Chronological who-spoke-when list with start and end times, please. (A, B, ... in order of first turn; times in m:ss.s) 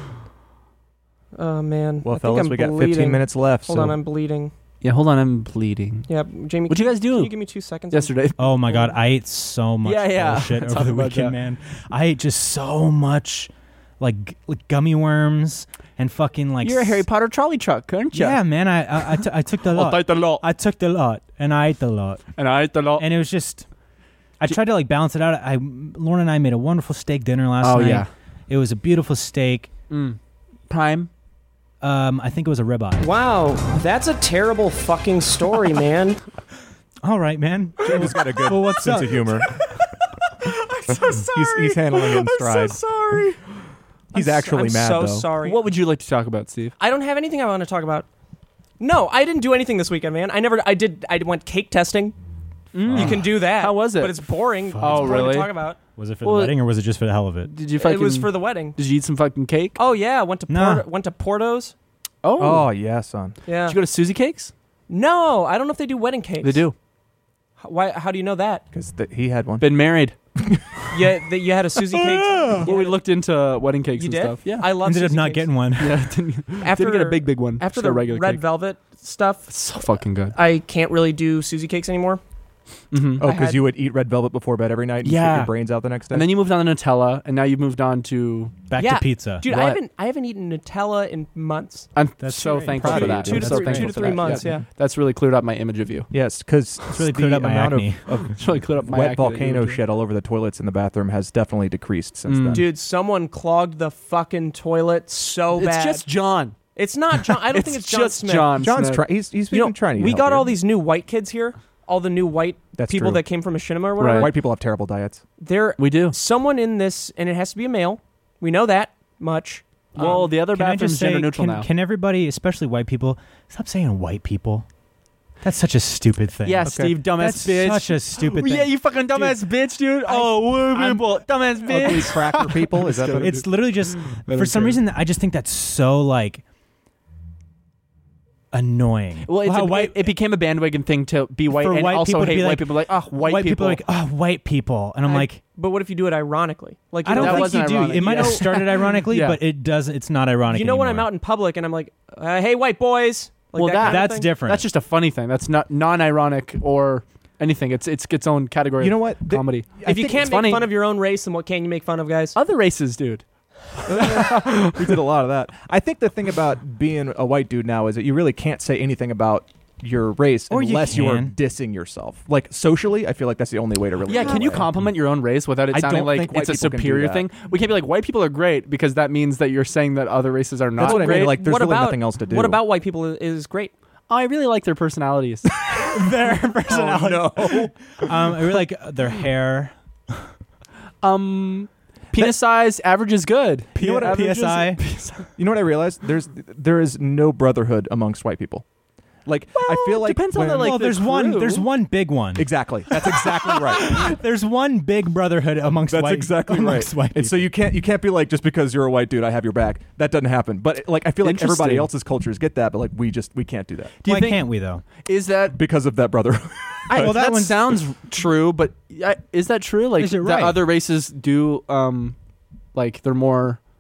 0:01.4-0:04.5 A
0:02.0-0:04.0 B
0:04.8-0:06.1 C
0:06.1-0:08.2 A
0:06.7-0:07.3 C
0:07.9-0:08.8 C
0:08.4-0:17.0 D
0:09.8-0:11.4 C
0:16.6-0:18.4 C
0:18.1-0:22.4 D
0:19.7-0:20.4 C
0:22.4-0:23.0 C
0:23.0-0:23.7 D
0:24.4-0:29.7 D
0:27.6-0:28.1 C
0:29.9-0:30.2 C
0:30.7-0:31.1 C
0:31.8-0:33.1 D
0:33.0-0:36.2 A
0:37.0-0:39.4 D
0:37.8-0:39.6 B
0:40.4-0:43.4 A
0:41.2-0:42.8 B
0:44.1-0:45.3 B
0:44.1-0:45.6 A
0:45.4-0:46.8 C
0:46.8-0:48.1 A
0:48.8-0:52.2 A
0:52.7-0:54.2 C
0:52.8-0:53.2 D
0:52.9-0:55.8 A
0:54.8-0:55.3 D
0:54.8-0:55.5 C
0:56.0-0:57.5 D
0:56.2-0:56.6 C
0:57.4-0:59.8 C
0:57.8-0:58.8 A
0:59.8-1:01.7 A
1:00.5-1:00.8 D
1:02.2-1:02.7 C
1:02.4-1:03.4 B
1:03.5-1:03.8 A
1:03.7-1:04.5 C
1:04.9-1:06.6 A
1:06.4-1:06.8 C
1:07.6-1:08.6 A
1:08.7-1:10.8 B
1:09.6-1:10.2 C
1:10.9-1:13.0 A
1:12.0-1:12.7 D
1:12.5-1:14.7 C
1:14.0-1:15.5 A
1:14.8-1:16.1 D
1:15.8-1:18.4 C
1:16.6-1:19.5 A
1:19.5-1:20.4 C
1:20.3-1:22.2 A
1:22.9-1:23.3 C
1:23.2-1:26.3 B
1:23.2-1:23.6 A
1:25.0-1:25.5 C
1:26.1-1:28.6 C
1:28.7-1:29.4 D
1:28.8-1:31.9 A
1:29.4-1:29.8 C
1:32.0-1:36.1 C
1:32.2-1:34.2 D
1:32.8-1:34.6 B
1:32.9-1:34.6 A
1:36.1-1:42.6 B
1:37.0-1:38.0 D
1:38.3-1:39.8 C
1:42.3-1:42.6 C
1:42.5-1:46.1 A
1:45.5-1:46.6 C
1:46.8-1:48.6 A
1:47.3-1:49.0 C
1:48.5-1:50.5 B
1:49.5-1:54.4 A
1:52.8-1:53.2 B
1:54.0-1:54.3 C
1:54.1-1:55.2 B
1:55.4-2:00.3 A
1:55.8-1:56.2 C
2:00.0-2:01.7 C
2:00.1-2:04.7 D
2:05.4-2:09.4 D
2:06.4-2:14.8 C
2:06.6-2:07.0 B
2:11.6-2:13.4 B
2:13.2-2:16.4 D
2:18.5-2:20.1 D
2:19.2-2:23.8 C
2:21.5-2:25.4 D
2:25.1-2:28.5 A
2:27.0-2:31.1 D
2:27.1-2:29.4 C
2:30.5-2:34.3 A
2:33.6-2:40.7 C
2:33.8-2:34.6 D
2:38.8-2:39.9 B
2:39.8-2:42.4 A
2:42.4-2:45.0 C
2:43.9-2:54.7 B
2:50.5-2:51.3 D
2:54.1-3:01.4 C
2:55.7-2:57.3 B
3:00.8-3:02.6 B
3:00.8-3:03.7 A
3:04.1-3:05.6 C
3:05.6-3:09.7 D
3:06.7-3:07.7 B
3:11.0-3:15.3 C
3:13.8-3:14.8 D
3:13.8-3:14.2 B
3:15.4-3:18.6 B
3:19.3-3:20.8 B
3:19.6-3:21.7 C
3:20.5-3:27.5 D
3:22.4-3:24.1 B
3:25.9-3:34.0 B
3:31.2-3:31.9 C
3:34.0-3:35.6 C
3:34.0-3:34.8 D
3:35.5-3:37.2 B
3:36.9-3:42.2 C
3:36.9-3:37.7 D
3:40.0-3:40.7 D
3:42.8-3:43.6 C